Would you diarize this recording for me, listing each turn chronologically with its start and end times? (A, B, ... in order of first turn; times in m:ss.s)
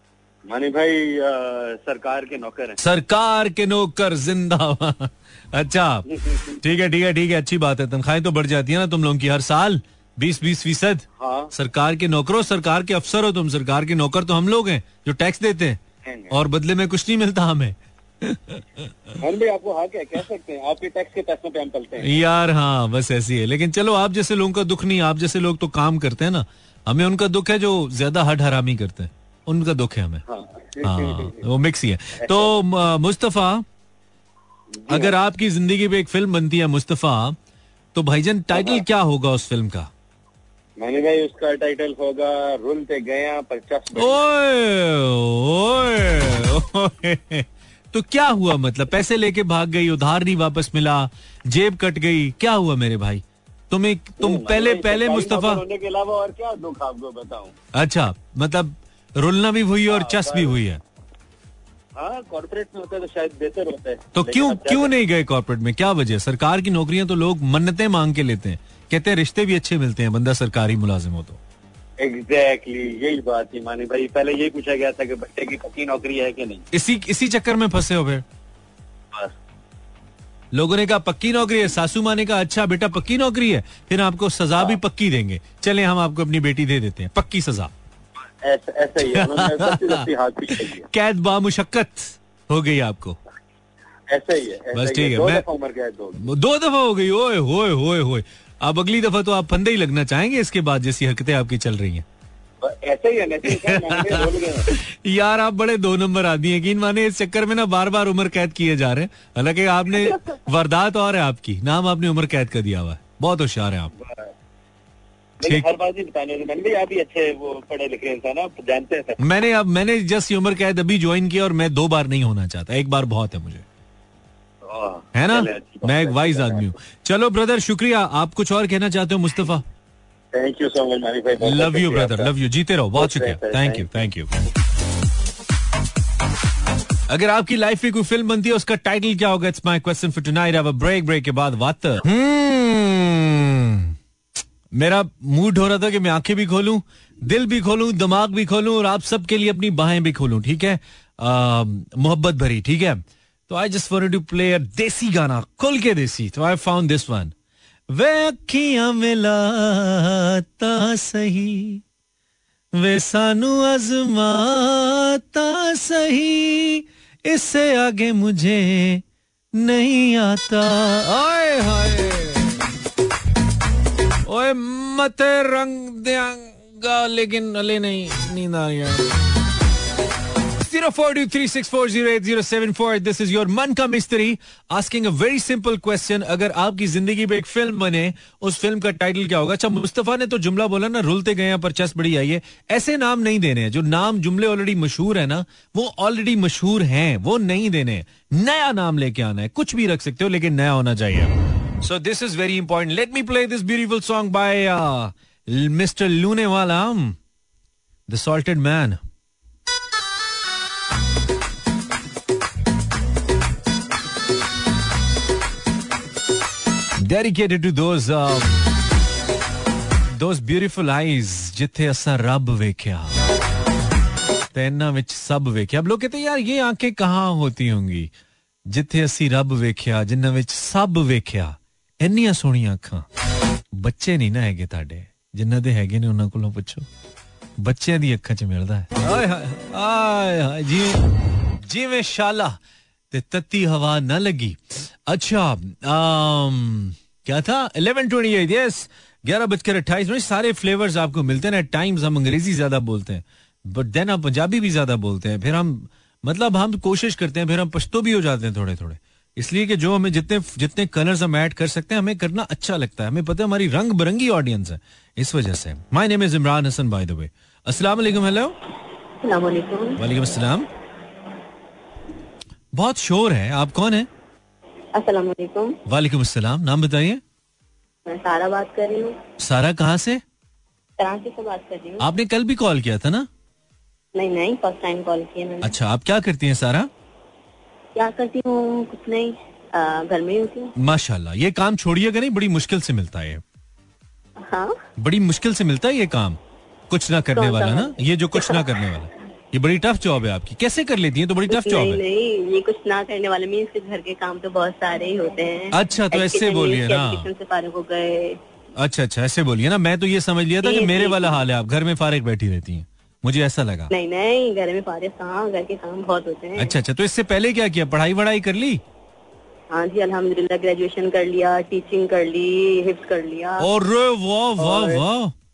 0:00.5-0:02.8 A
0:02.8-0:06.1 B
0:06.6-0:15.8 B
0:11.2-0:11.5 A
0:16.0-0:16.3 A
0:16.3-0:18.8 B
0:19.2-0:22.2 A
0:22.0-0:30.2 B
0:30.3-0:31.4 A
0:30.8-0:33.6 B
0:32.2-0:32.5 A
0:34.8-0:35.1 A
0:34.9-0:37.4 B
0:38.0-0:39.9 B
0:38.5-0:38.8 A
0:40.8-0:44.2 A
0:44.0-0:55.6 B
0:54.2-0:57.6 A
0:57.7-1:00.8 B
0:59.9-1:00.6 A
1:02.0-1:04.9 A
1:04.2-1:11.4 B
1:12.0-1:16.7 A
1:16.7-1:18.2 B
1:20.5-1:27.7 B
1:28.4-1:30.9 A
1:29.0-1:33.2 B
1:34.1-1:36.3 A
1:34.7-1:35.4 B
1:36.2-1:42.0 B
1:42.6-1:44.7 A
1:43.5-1:53.9 B
1:55.4-1:59.2 A
1:59.2-2:03.6 B
2:04.6-2:06.7 A
2:05.1-2:09.6 B
2:10.3-2:12.3 A
2:11.4-2:14.3 B
2:13.0-2:14.0 A
2:17.1-2:23.9 B
2:24.7-2:37.3 B
2:37.9-2:41.8 B
2:42.8-2:49.0 B
2:49.6-2:52.5 B
2:54.3-2:59.1 B
3:00.6-3:27.2 B
3:28.1-3:29.0 B
3:37.0-3:38.5 B
3:40.2-3:43.1 B
3:44.5-3:48.1 B
3:48.7-3:53.1 B
3:53.7-3:56.9 B
3:57.6-4:01.0 B
4:01.6-4:02.6 B
4:03.1-4:28.6 B
4:29.2-4:30.0 C
4:30.0-4:30.7 B
4:32.8-4:34.1 B
4:35.0-4:35.8 C
4:35.9-4:37.2 B
4:38.1-4:39.2 C
4:39.4-4:40.2 B
4:41.0-4:42.1 C
4:42.0-4:43.3 B
4:44.2-4:45.7 C
4:45.6-4:46.9 B
4:48.0-4:50.7 C
4:50.8-4:53.4 B
4:54.4-4:54.7 C
4:55.0-4:56.4 B
4:56.9-5:02.0 B
4:57.4-4:58.7 C
5:01.5-5:08.4 C
5:05.7-5:07.3 B
5:08.8-5:13.9 B
5:10.6-5:11.4 C
5:13.9-5:16.8 C
5:16.6-5:18.8 B
5:19.7-5:23.7 C
5:23.6-5:25.3 B